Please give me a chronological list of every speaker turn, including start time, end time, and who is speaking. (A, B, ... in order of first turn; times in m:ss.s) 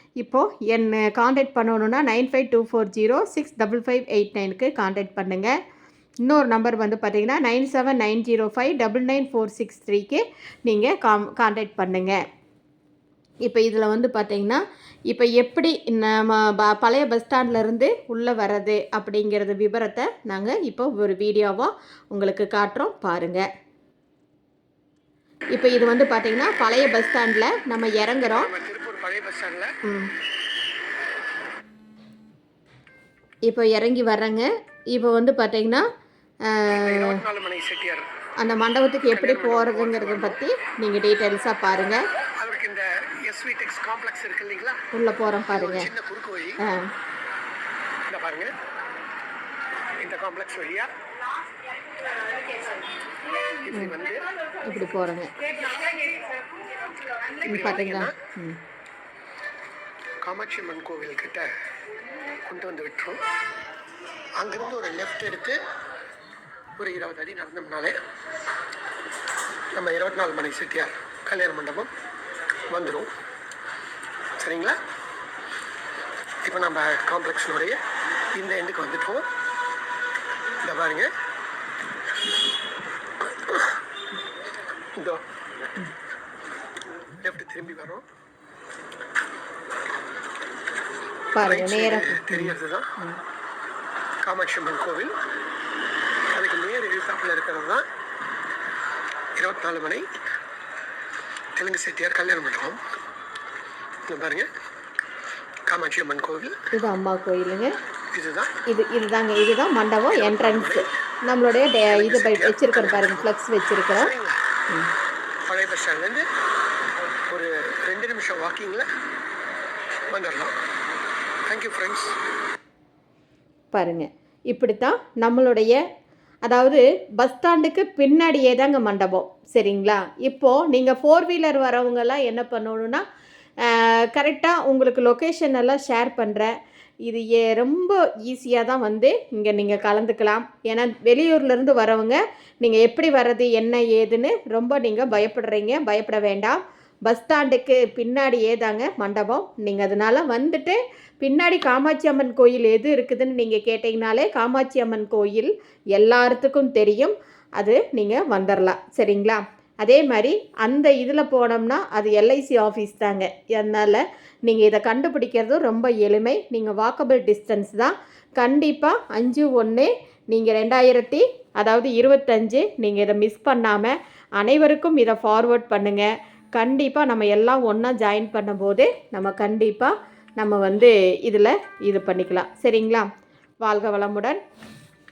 0:00.2-0:05.5 A
0:06.2-0:12.2 A
0:13.4-0:23.4 A
0:25.5-0:28.5 A
0:28.2-0:29.7 B
0:29.8-0:30.1 A
0:33.5-0:35.8 A
0:36.5-0:37.2 A
0:36.7-0:38.1 B
0:38.4-0:42.0 A
0:39.1-0:40.4 B
0:42.4-0:44.8 B
0:44.9-0:45.9 A
0:45.5-0:46.6 B
0:48.1-0:48.5 B
0:50.0-0:50.9 B
0:53.6-0:54.2 B
0:54.6-0:55.3 A
0:57.4-0:58.2 B
0:57.4-0:58.6 A
1:00.2-1:01.5 B
1:02.5-1:03.2 B
1:04.4-1:05.6 B
1:06.8-1:08.0 B
1:09.8-1:11.9 B
1:12.7-1:13.1 B
1:14.4-1:14.8 B
1:16.4-1:17.8 B
1:18.4-1:19.2 B
1:20.6-1:21.1 B
1:23.3-1:23.7 B
1:27.2-1:28.0 B
1:31.4-1:33.2 A
1:31.4-1:32.9 B
1:34.2-1:35.1 B
1:36.3-1:37.8 B
1:39.4-1:40.1 B
1:41.6-1:42.8 B
1:44.1-1:44.5 B
1:45.7-1:46.6 B
1:46.7-1:47.7 A
1:48.1-1:48.5 B
1:48.7-1:54.1 A
1:50.1-1:50.9 B
1:51.9-1:53.3 B
1:53.9-1:54.4 B
1:55.5-1:56.3 B
1:57.3-1:58.9 B
2:00.1-2:00.6 B
2:01.5-2:02.2 B
2:03.7-2:05.8 A
2:06.5-2:13.0 A
2:13.6-2:16.5 A
2:17.1-3:03.1 A
3:03.6-3:04.4 A